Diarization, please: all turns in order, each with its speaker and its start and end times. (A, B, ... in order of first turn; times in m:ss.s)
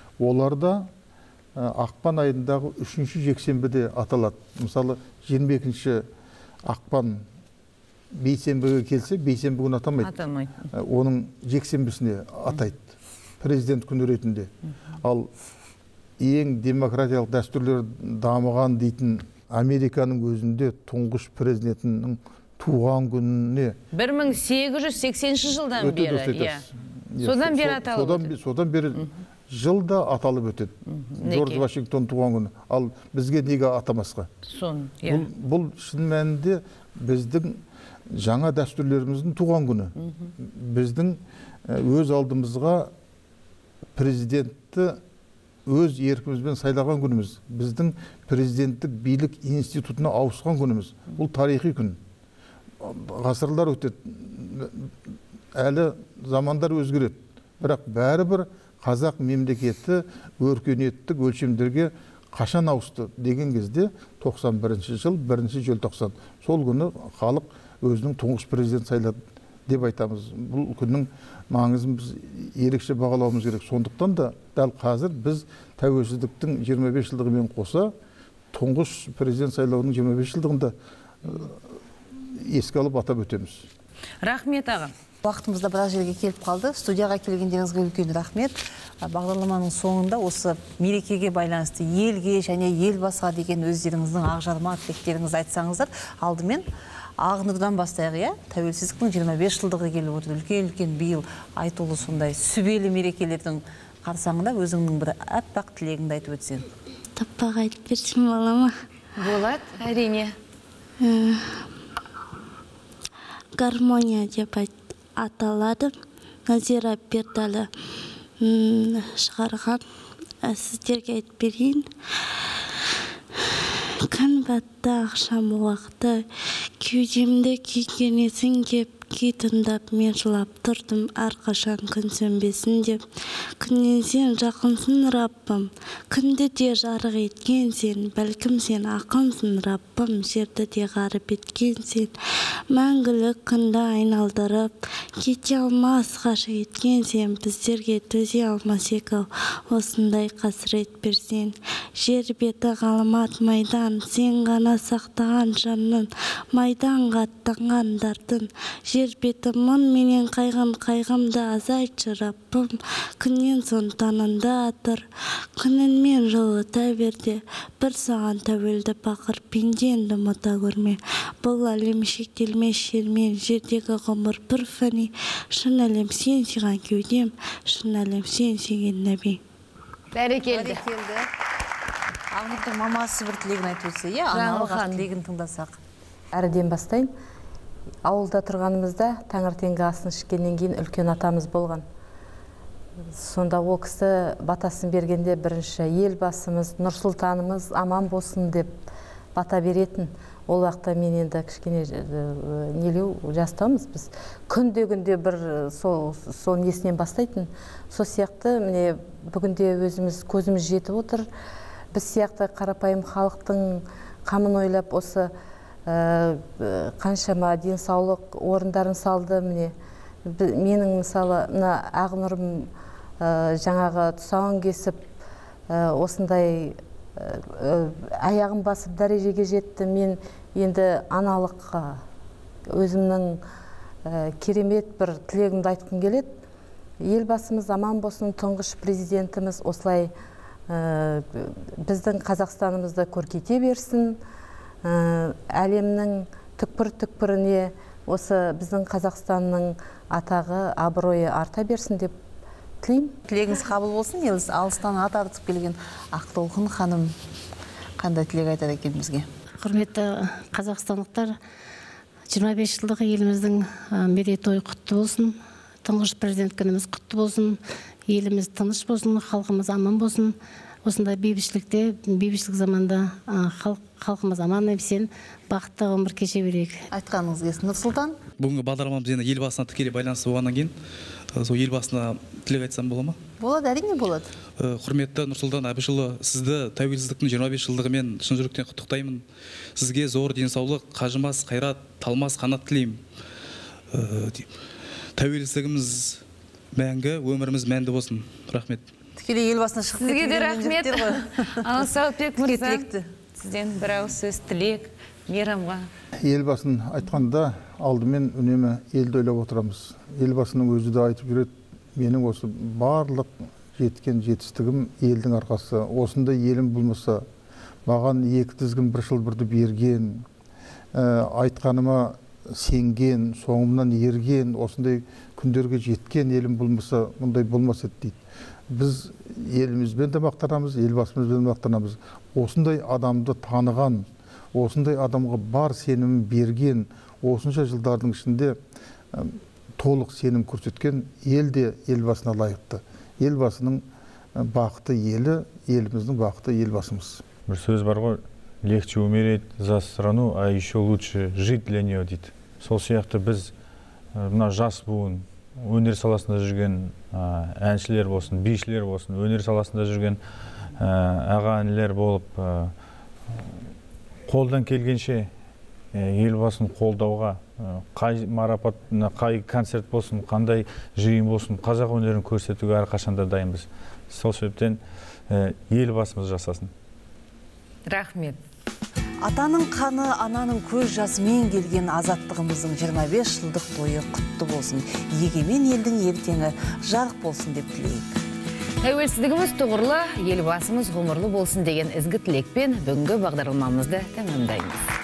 0:00.2-0:00.9 A
0:01.6-0:06.0 A
0:06.6-0:07.2 A
0:08.1-0:10.1 A
0:10.0-0:10.7 B
0:10.7-0:12.8 A
0:13.4-0:15.3 A
0:16.2-0:23.8 A
0:23.9-0:26.6 B
0:25.8-0:34.3 A
0:27.2-0:28.3 B
0:30.9-0:31.6 B
0:34.5-0:35.2 B
0:35.0-0:42.9 A
0:40.0-0:40.3 B
0:44.0-0:45.0 A
0:45.6-0:52.0 A
0:52.8-0:54.9 A
0:55.6-1:17.9 A
1:18.5-1:21.6 A
1:22.1-1:23.6 A
1:24.2-1:24.9 B
1:25.2-1:36.6 C
1:37.2-1:46.7 C
1:47.2-1:48.7 D
1:49.2-1:50.3 B
1:51.0-1:51.4 D
1:53.6-1:55.9 D
1:56.5-1:57.7 D
1:58.4-1:59.8 D
2:00.4-2:01.8 D
2:04.1-2:06.2 D
2:06.8-2:13.0 D
2:13.6-2:22.1 D
2:22.7-2:45.0 D
2:45.6-2:59.4 D
3:00.1-3:00.8 B
3:00.5-3:01.3 C
3:02.3-3:05.8 C
3:04.3-3:05.1 B
3:06.3-3:07.1 E
3:08.0-3:11.8 E
3:13.1-3:18.7 E
3:19.3-3:31.3 E
3:31.9-3:35.3 E
3:35.9-3:39.7 E
3:40.2-3:42.7 E
3:43.2-3:45.1 E
3:45.7-3:52.0 E
3:52.7-3:53.4 E
3:54.0-3:56.3 E
3:57.0-4:00.1 E
4:00.7-4:04.2 E
4:04.8-4:12.1 E
4:12.8-4:13.1 E
4:13.3-4:17.1 C
4:18.0-4:19.3 C
4:19.6-4:21.3 F
4:22.3-4:36.8 F
4:36.9-4:38.2 C
4:38.4-4:40.7 G
4:41.3-4:43.2 G
4:43.4-4:44.3 C
4:44.6-4:49.2 G
4:49.8-4:53.0 G
4:53.9-4:54.5 G
4:55.2-4:56.2 G
4:56.7-4:58.8 G
4:59.2-5:01.6 C
5:00.0-5:05.9 B
5:02.4-5:03.1 C
5:06.2-5:17.2 A
5:17.8-5:20.2 A
5:20.9-5:28.2 A
5:28.7-5:38.6 A
5:39.1-5:43.8 A
5:44.4-5:47.2 A
5:47.4-5:53.5 H
5:54.1-6:00.2 H
6:00.8-6:02.7 H
6:04.3-6:05.3 H
6:05.9-6:16.7 H
6:17.9-6:18.4 B
6:19.2-6:28.2 C
6:28.8-6:34.9 B